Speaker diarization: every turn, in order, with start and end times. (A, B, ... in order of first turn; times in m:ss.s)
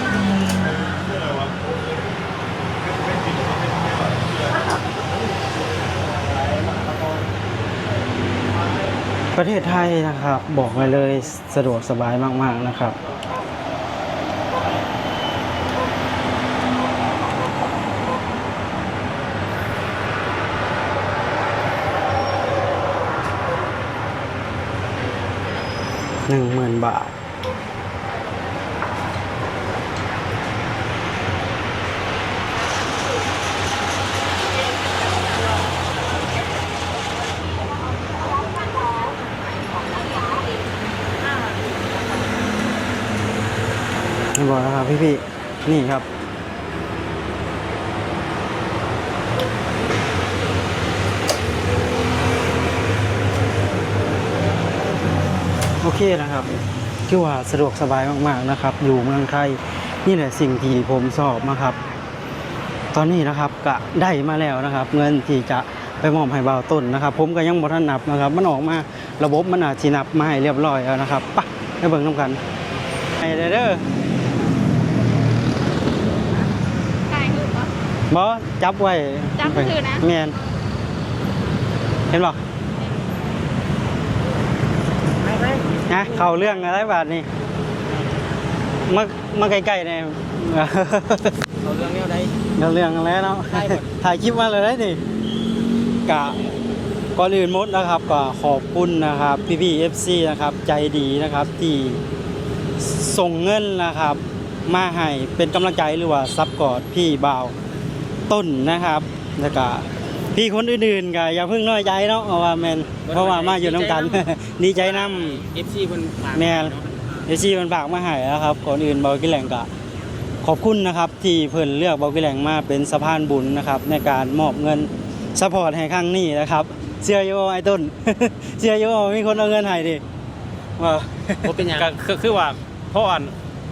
0:09.3-0:13.0 A
0:26.3-0:27.1 A
0:38.0-0:40.6 B
0:44.3-0:46.0 A
0:55.8-1:01.8 A
1:02.9-1:12.4 A
1:13.2-1:13.9 A
1:17.1-1:17.7 B
1:18.1-1:20.4 A
1:22.1-1:22.4 A
1:25.2-1:26.4 C
1:25.9-1:27.3 A
1:28.8-1:31.4 A
1:31.6-1:32.3 C
1:32.6-1:35.0 A
1:33.5-1:33.8 C
1:36.0-1:36.4 A
1:37.1-1:42.0 A
1:42.8-1:47.5 A
1:48.3-1:55.4 A
1:53.1-1:54.0 D
1:53.3-1:54.1 C
1:54.8-1:55.5 D
1:55.0-1:56.6 C
1:56.3-1:56.8 D
1:56.3-1:59.7 A
2:00.4-2:10.0 A
2:10.8-2:11.7 A
2:11.4-2:11.9 C
2:11.7-2:13.3 D